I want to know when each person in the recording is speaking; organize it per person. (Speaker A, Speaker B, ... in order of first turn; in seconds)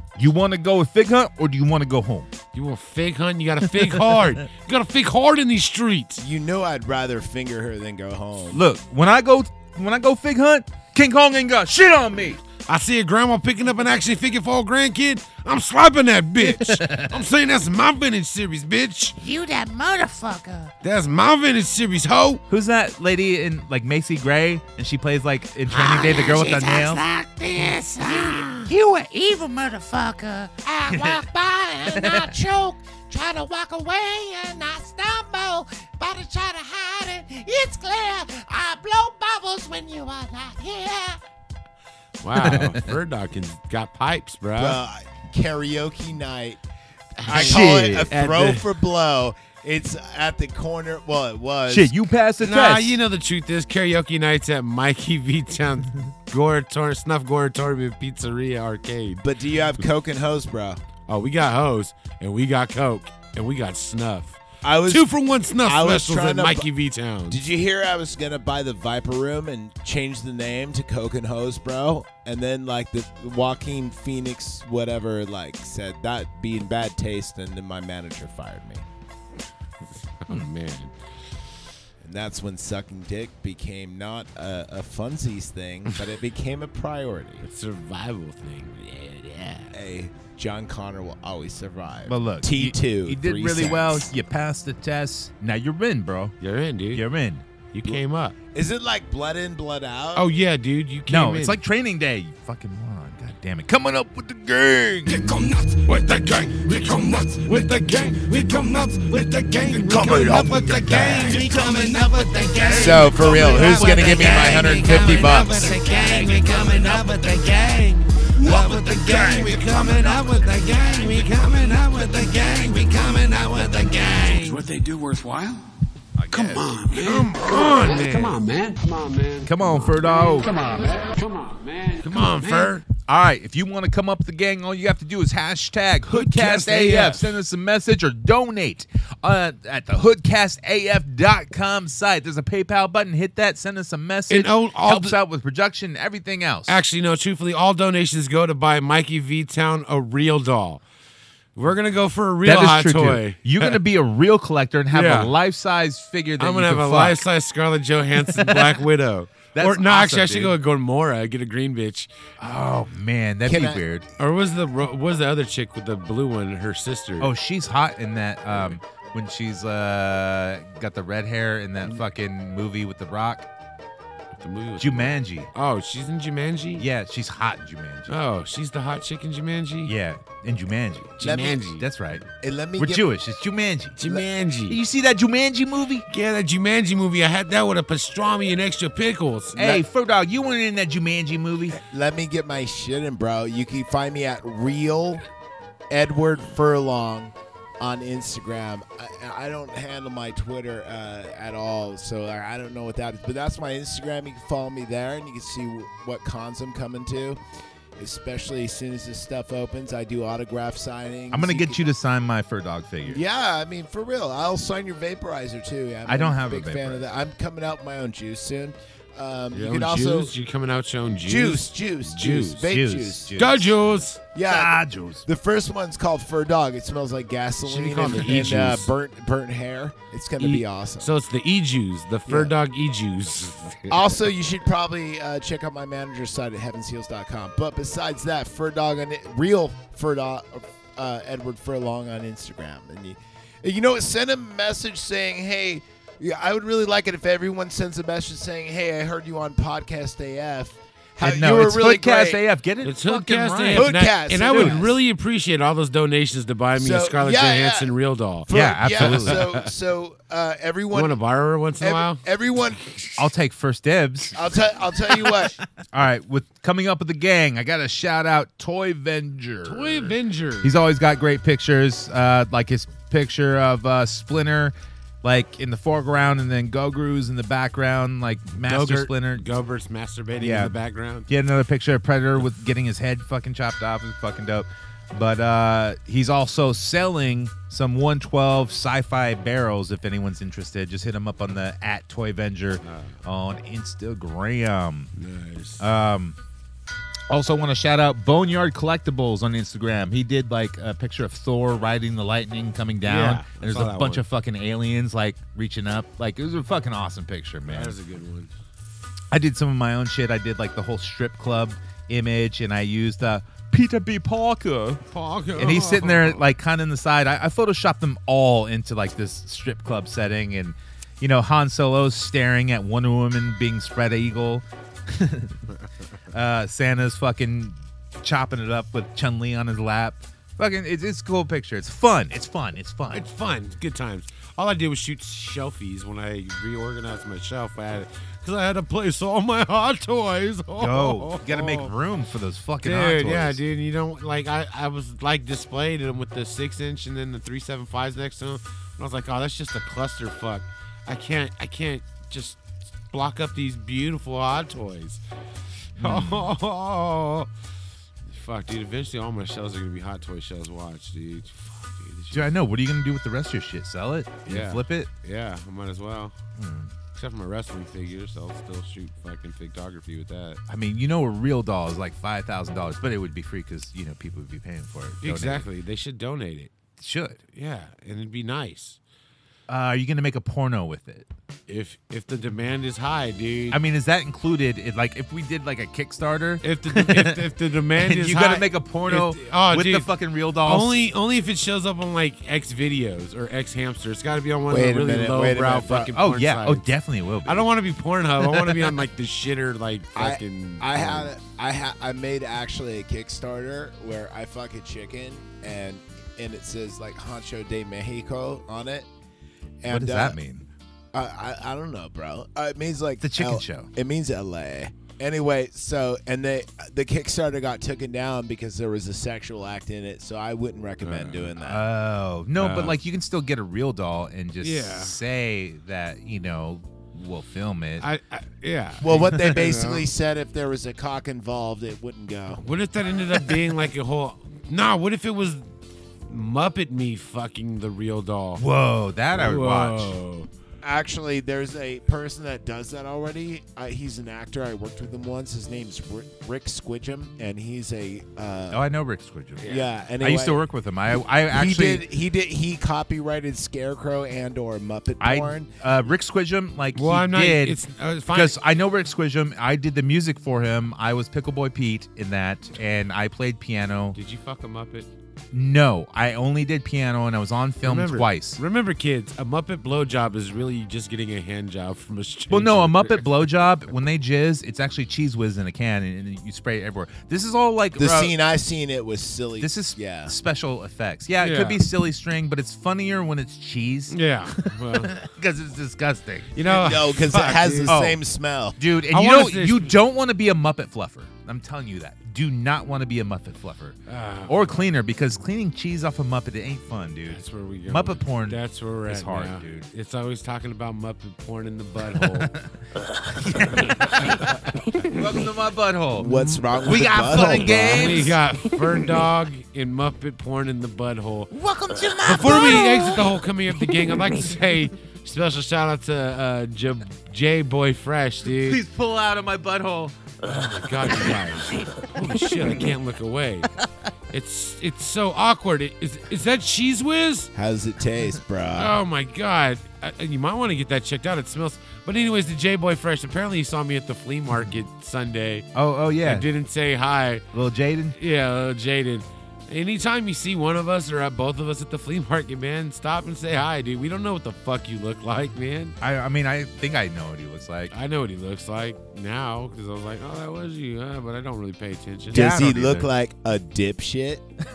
Speaker A: 0.2-2.3, 8.5-12.4, 16.4-17.2, 22.5-27.0, 30.9-31.2, 31.9-32.3, 42.4-42.8, 47.3-48.1, 51.7-53.0, 92.0-96.3, 96.9-97.4, 101.1-105.5, 112.6-114.9, 116.0-116.5, 126.2-126.8, 129.4-130.5, 133.0-146.8, 152.4-157.2, 158.3-158.8, 159.5-160.6, 162.4-164.1, 167.2-173.5, 174.8-175.5, 176.8-178.1, 179.8-182.2, 182.8-184.0, 184.7-186.0, 189.6-191.8, 211.3-213.2, 216.1-217.0, 222.6-223.7, 224.4-225.2, 251.2-254.8, 258.5-259.5, 263.2-264.4, 265.9-279.5, 280.4-280.8, 281.3-295.1, 295.8-296.4, 297.3-307.9, 309.3-315.0, 315.6-325.6, 326.3-333.3, 340.8-343.6, 356.0-356.5, 362.3-365.1, 366.6-366.9, 370.7-375.7, 377.0-377.4, 379.7-381.3, 383.7-391.0, 396.1-397.7, 398.4-398.9, 409.9-410.6, 413.2-413.9, 421.6-428.1, 429.1-429.4, 438.6-440.1, 448.7-452.0, 455.2-464.2, 465.5-468.6, 472.5-478.3, 479.6-486.6, 487.9-488.2, 488.8-499.6, 502.1-502.6, 503.3-504.5, 505.1-508.4, 512.3-513.0, 518.5-520.1, 522.0-522.7, 535.7-536.5, 537.5-538.1, 546.0-547.9, 552.3-553.1
Speaker B: 2.5-6.2, 12.7-19.2, 20.8-22.4, 27.5-28.7, 42.2-44.8, 47.2-48.7, 52.4-59.2, 61.1-67.4, 80.2-80.9, 87.4-89.7, 96.4-97.0, 97.7-98.3, 100.1-101.6, 105.3-124.7, 126.9-128.4, 132.0-132.8, 136.1-137.3, 144.3-145.2, 146.7-150.8, 151.6-153.8, 154.9-155.3, 156.4-162.1, 164.2-167.3, 174.4-176.8, 178.1-179.9, 181.2-181.8, 184.0-184.8, 186.1-189.6, 219.5-222.7, 223.4-224.2, 227.6-228.9, 230.4-233.9, 252.8-259.7, 260.9-262.2, 269.6-270.7, 278.6-281.3, 292.8-293.2, 295.1-295.9, 303.0-304.2, 307.6-308.5, 315.1-316.4, 333.1-341.9, 342.8-355.2, 356.0-357.5, 358.3-362.6, 364.4-366.4, 367.1-370.6, 375.2-376.7, 377.5-379.0, 381.7-383.8, 386.6-390.1, 390.6-396.9, 397.4-401.3, 421.0-421.5, 422.6-422.9, 424.6-425.1, 428.0-430.1, 432.6-435.6, 436.3-438.6, 439.3-440.5, 456.9-458.6, 464.1-465.1, 467.8-473.5, 481.4-481.8, 484.1-485.1, 486.5-488.0, 489.1-489.9, 494.1-494.8, 497.3-502.5, 504.0-504.4, 506.2-506.6, 507.9-511.5, 512.2-518.8, 520.5-523.7, 524.3-527.5, 528.8-535.7, 536.2-537.4, 538.1-546.0, 547.9-552.9
Speaker C: 6.2-8.6, 44.6-46.6, 47.2-51.9, 59.2-60.8, 64.6-66.7, 67.3-78.8, 82.0-87.4, 89.7-94.1, 98.5-100.2, 110.8-111.2, 112.7-115.8, 163.4-163.8, 181.2-181.6, 182.4-183.1, 191.8-195.2, 195.9-207.4, 208.0-211.8, 213.1-220.3, 221.2-223.4, 224.3-231.1, 232.3-232.5, 233.9-252.4, 253.7-255.0, 256.8-257.9, 258.4-261.2, 261.8-263.0, 264.3-265.6, 394.7-396.1, 400.1-409.1, 409.8-410.4, 411.1-421.8, 429.0-432.6, 440.8-448.8, 449.7-450.6, 451.5-455.7, 478.0-480.3, 486.6-488.8, 506.2-508.3, 527.5-529.0, 552.3-554.4
Speaker D: 19.2-20.7, 25.7-41.2, 511.5-513.2
Speaker E: 124.0-125.6, 126.3-132.7